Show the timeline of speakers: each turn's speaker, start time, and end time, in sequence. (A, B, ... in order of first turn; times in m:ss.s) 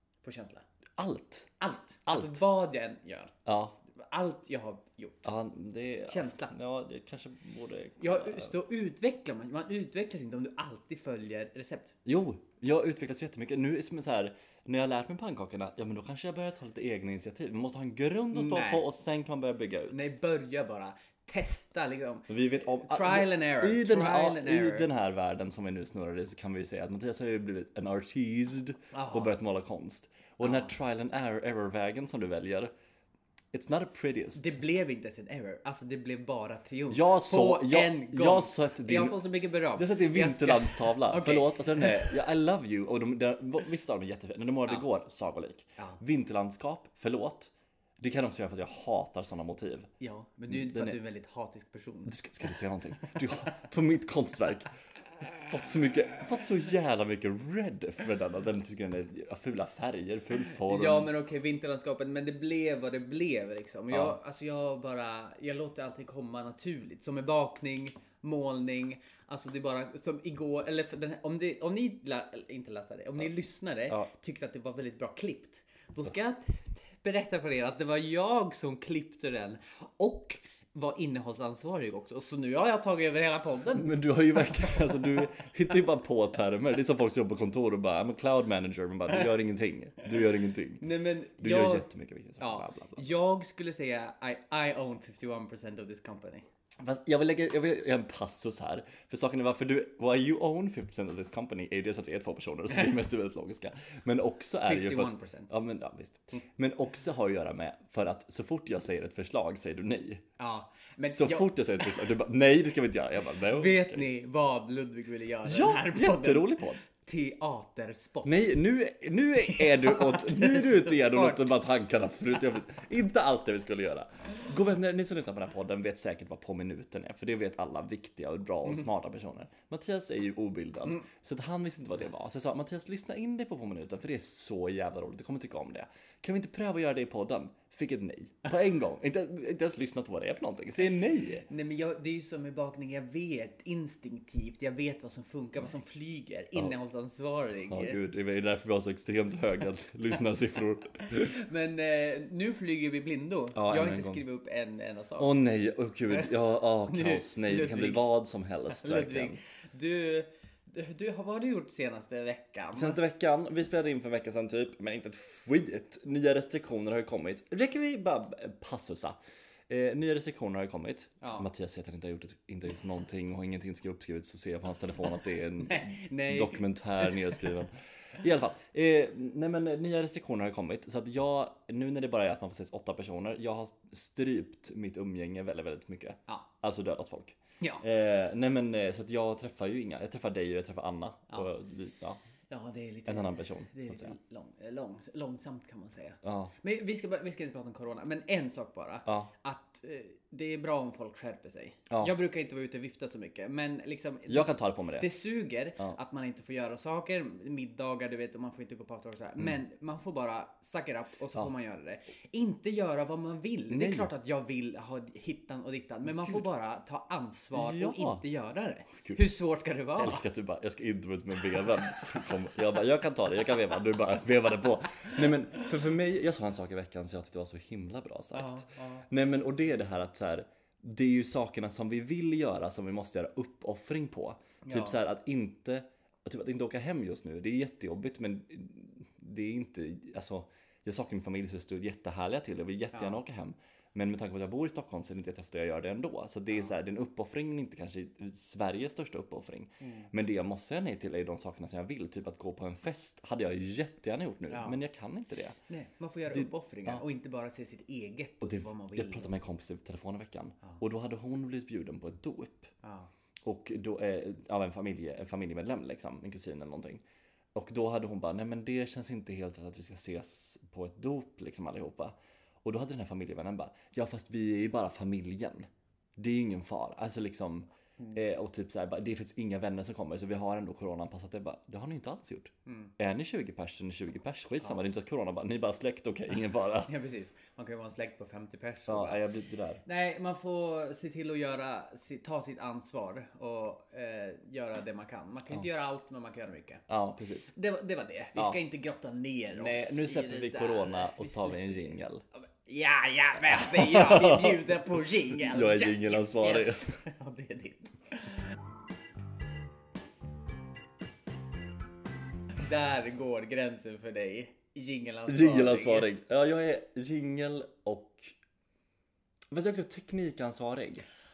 0:00.2-0:00.6 A
0:01.0-0:01.5 B
0:01.6-0:03.4 A
0:02.1-0:02.4 B
0:03.5-0:03.8 B
0:04.0-0:05.3 A
0:05.2-0:08.6 B
0:06.1-0:06.6 A
0:08.0-0:12.0 A
0:12.0-0:20.0 B
0:18.3-0:18.9 A
0:19.9-0:24.9 A
0:22.3-0:32.7 B
0:28.9-0:29.4 A
0:30.4-0:30.7 A
0:33.5-0:34.5 B
0:34.4-0:42.2 A
0:36.9-0:39.2 B
0:39.8-0:49.9 B
0:50.0-0:53.6 A
0:50.5-0:51.0 B
0:52.1-0:54.7 B
0:55.2-1:01.1 B
1:00.6-1:23.9 A
1:03.9-1:04.2 B
1:23.7-1:30.8 B
1:30.8-1:31.9 A
1:31.4-1:33.0 B
1:32.4-1:36.5 A
1:36.8-1:50.2 B
1:44.6-1:45.5 A
1:50.4-1:52.0 A
1:51.1-1:54.1 B
1:53.5-1:58.5 A
1:55.4-1:56.8 B
1:58.2-2:21.5 B
1:59.4-2:01.6 A
2:21.5-2:28.0 A
2:27.7-2:31.3 B
2:31.1-2:35.3 A
2:33.6-2:34.2 B
2:35.2-2:39.4 B
2:36.9-2:38.0 A
2:38.7-2:43.0 A
2:42.7-2:49.2 B
2:49.7-3:12.2 B
2:51.2-2:51.5 A
2:55.6-2:57.4 A
3:12.5-3:40.2 A
3:13.1-3:14.2 B
3:16.2-3:16.5 B
3:24.3-3:25.1 B
3:33.7-3:34.1 B
3:36.0-3:36.4 B
3:37.5-3:38.2 B
3:38.9-3:39.2 B
3:40.0-4:15.6 B
3:48.3-3:49.1 A
3:54.6-3:55.0 A
4:02.9-4:03.2 A
4:09.8-4:10.1 A
4:14.5-4:14.8 A
4:15.7-4:19.4 A
4:16.3-4:17.0 B
4:18.4-4:22.7 B
4:22.8-4:23.1 A
4:23.4-4:27.0 B
4:27.6-4:46.9 B
4:42.7-4:42.9 A
4:46.8-4:49.2 A
4:48.9-4:49.8 B
4:49.8-4:56.8 A
4:56.9-4:57.5 B
4:57.5-5:08.5 A
4:59.5-5:02.2 B
5:03.5-5:04.8 B
5:05.3-5:07.0 B
5:12.6-5:16.1 A
5:15.3-5:18.4 B
5:19.5-5:21.1 B